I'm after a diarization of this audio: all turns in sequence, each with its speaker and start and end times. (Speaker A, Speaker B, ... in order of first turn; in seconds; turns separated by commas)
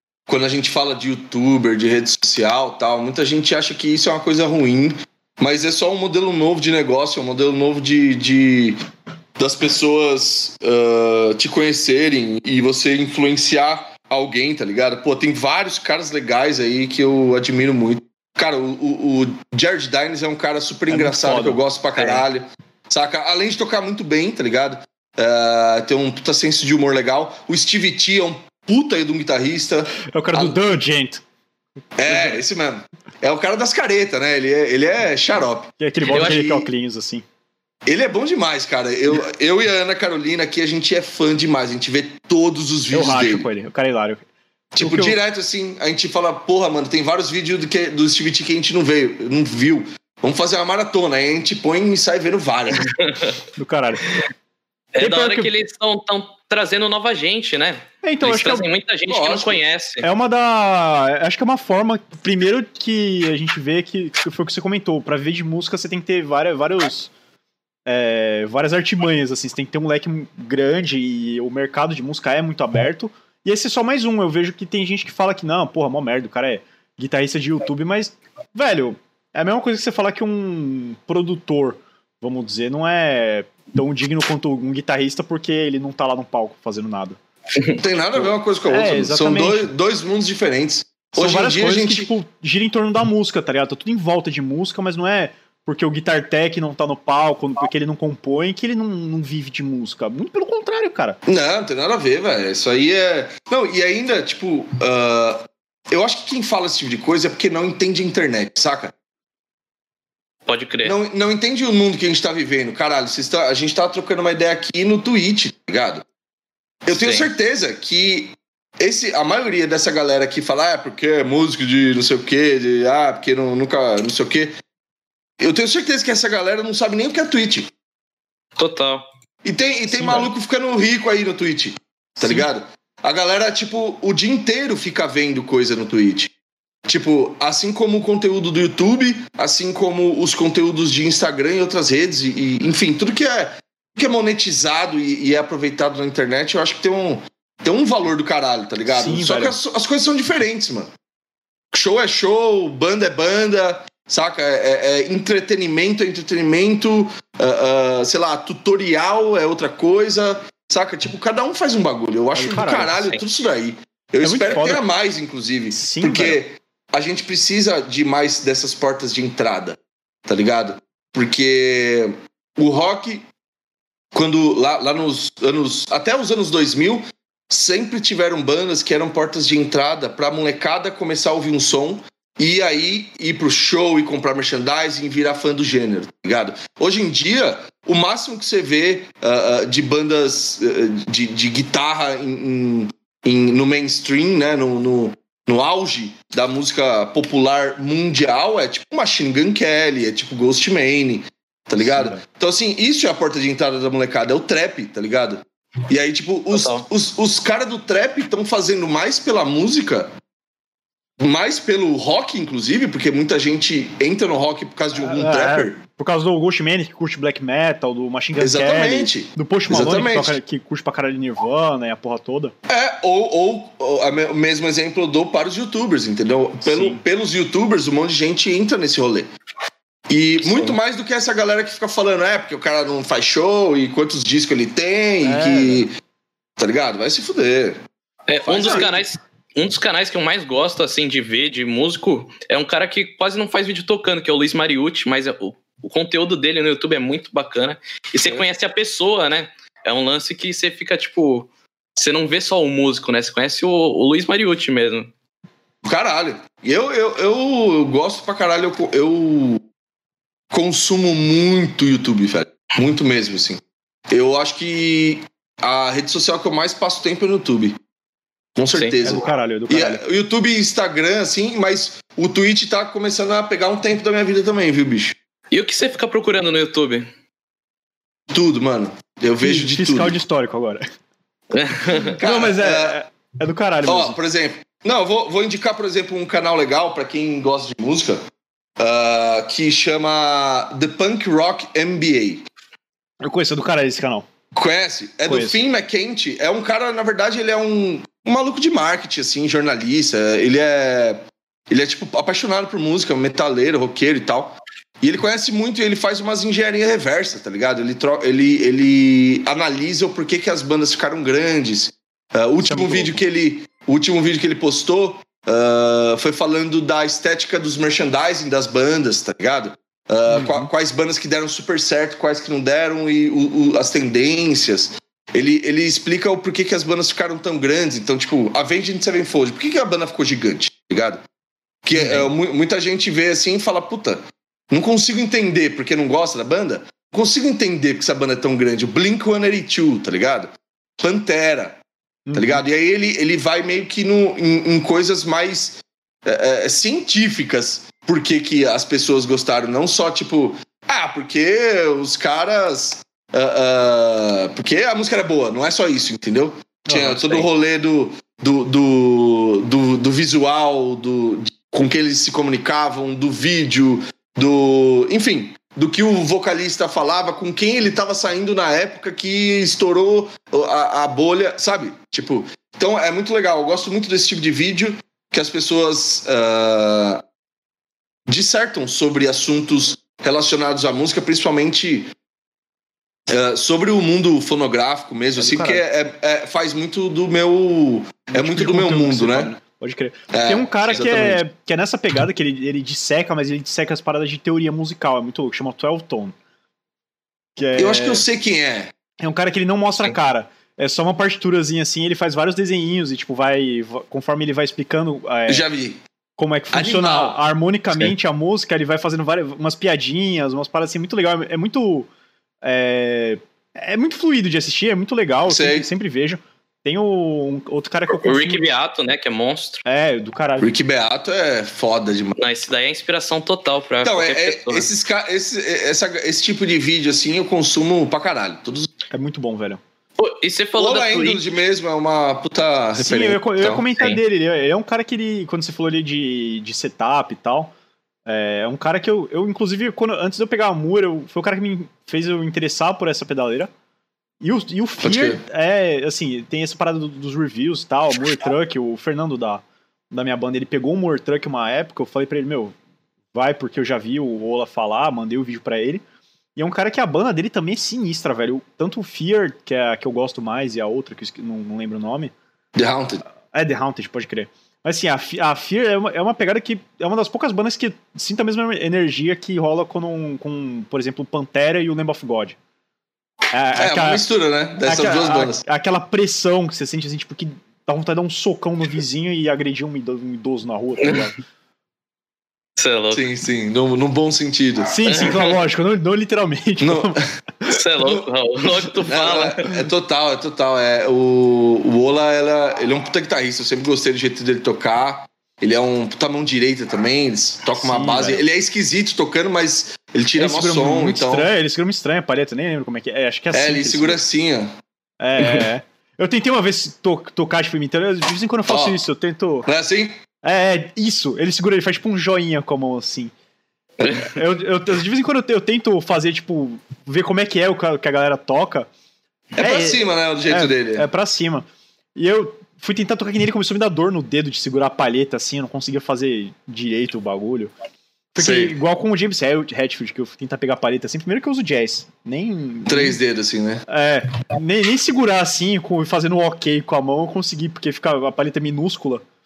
Speaker A: 0.3-8.8, Speaker A: 9.4-30.8, Speaker B: 20.9-21.6, Speaker C: 22.0-22.2, Speaker B: 30.1-31.2, Speaker A: 32.0-36.7, Speaker B: 35.8-37.2, Speaker C: 36.0-36.5, Speaker A: 37.9-43.5, Speaker B: 42.9-44.2, Speaker A: 44.7-52.9, Speaker B: 44.8-45.2, Speaker C: 52.8-53.4, Speaker B: 53.6-54.1, Speaker C: 54.9-60.1, Speaker B: 55.0-55.5, Speaker B: 58.0-58.7, Speaker A: 59.1-59.6, Speaker B: 60.0-67.1, Speaker B: 67.9-87.2, Speaker A: 87.8-92.1, Speaker B: 88.2-89.7, Speaker B: 91.2-101.2, Speaker A: 101.3-108.9, Speaker C: 110.5-111.0, Speaker A: 110.8-116.0, Speaker A: 116.9-124.5, Speaker C: 116.9-117.3, Speaker A: 125.4-127.7, Speaker C: 128.6-129.0, Speaker A: 129.4-136.3, Speaker B: 129.9-130.3, Speaker B: 132.2-132.5, Speaker A: 136.9-150.9, Speaker B: 148.9-149.6, Speaker A: 151.7-173.2, Speaker B: 162.3-163.0, Speaker B: 164.2-164.8, Speaker B: 165.7-166.4, Speaker A: 174.1-210.1, Speaker B: 201.8-202.2, Speaker C: 206.5-206.9, Speaker A: 211.2-215.8, Speaker B: 215.0-222.5, Speaker A: 218.4-220.4, Speaker A: 222.7-229.3, Speaker B: 226.6-227.0, Speaker A: 230.1-235.9, Speaker C: 230.5-230.7, Speaker B: 235.2-235.9, Speaker A: 236.6-237.8, Speaker C: 238.3-255.1, Speaker A: 238.4-239.0, Speaker B: 238.5-238.9, Speaker A: 255.8-259.6, Speaker A: 260.5-267.8, Speaker A: 268.6-275.2, Speaker B: 269.0-270.0, Speaker C: 275.5-277.1, Speaker A: 278.3-280.2, Speaker B: 279.4-280.8, Speaker C: 281.5-282.1, Speaker B: 282.0-284.2, Speaker A: 282.2-283.0, Speaker A: 283.9-288.2, Speaker A: 288.8-292.4, Speaker B: 293.2-294.3, Speaker A: 294.6-331.2, Speaker B: 295.3-295.6, Speaker B: 312.6-313.2, Speaker B: 320.3-320.7, Speaker A: 331.9-341.8, Speaker B: 332.0-332.3, Speaker B: 342.3-342.6, Speaker A: 342.3-377.2, Speaker B: 356.9-357.4, Speaker A: 378.3-382.1, Speaker A: 383.3-389.5, Speaker B: 385.4-385.8, Speaker B: 388.3-396.4, Speaker A: 390.3-391.4, Speaker B: 397.6-398.2, Speaker A: 397.8-398.9, Speaker B: 399.2-405.6, Speaker A: 405.5-406.0, Speaker B: 406.4-412.1, Speaker A: 406.7-407.4, Speaker B: 412.6-418.8, Speaker A: 415.5-415.9, Speaker C: 418.1-419.8, Speaker B: 419.9-420.7, Speaker A: 420.6-422.4, Speaker C: 422.4-424.9, Speaker A: 424.0-428.9, Speaker B: 429.1-429.8, Speaker C: 430.2-431.4, Speaker A: 430.8-433.9, Speaker B: 433.0-437.7, Speaker B: 438.3-443.7, Speaker B: 444.4-452.8, Speaker A: 445.0-445.4, Speaker B: 453.3-456.0, Speaker B: 456.6-462.3, Speaker A: 462.8-463.2, Speaker B: 463.5-472.6, Speaker B: 473.5-474.3, Speaker A: 473.8-475.6, Speaker B: 474.8-481.4, Speaker C: 482.8-483.2, Speaker A: 483.1-485.2, Speaker B: 484.9-487.8, Speaker C: 485.1-485.5, Speaker A: 486.8-487.2, Speaker C: 487.7-489.8, Speaker A: 489.1-501.5, Speaker B: 497.8-498.4, Speaker B: 500.4-504.2, Speaker A: 503.5-504.7, Speaker B: 505.2-509.7, Speaker A: 508.7-509.0, Speaker A: 509.7-510.2, Speaker B: 510.4-513.3, Speaker B: 514.0-518.9, Speaker A: 519.6-521.1, Speaker B: 519.6-527.7, Speaker B: 528.4-533.2, Speaker A: 528.4-528.8, Speaker A: 532.9-533.8, Speaker B: 533.9-539.2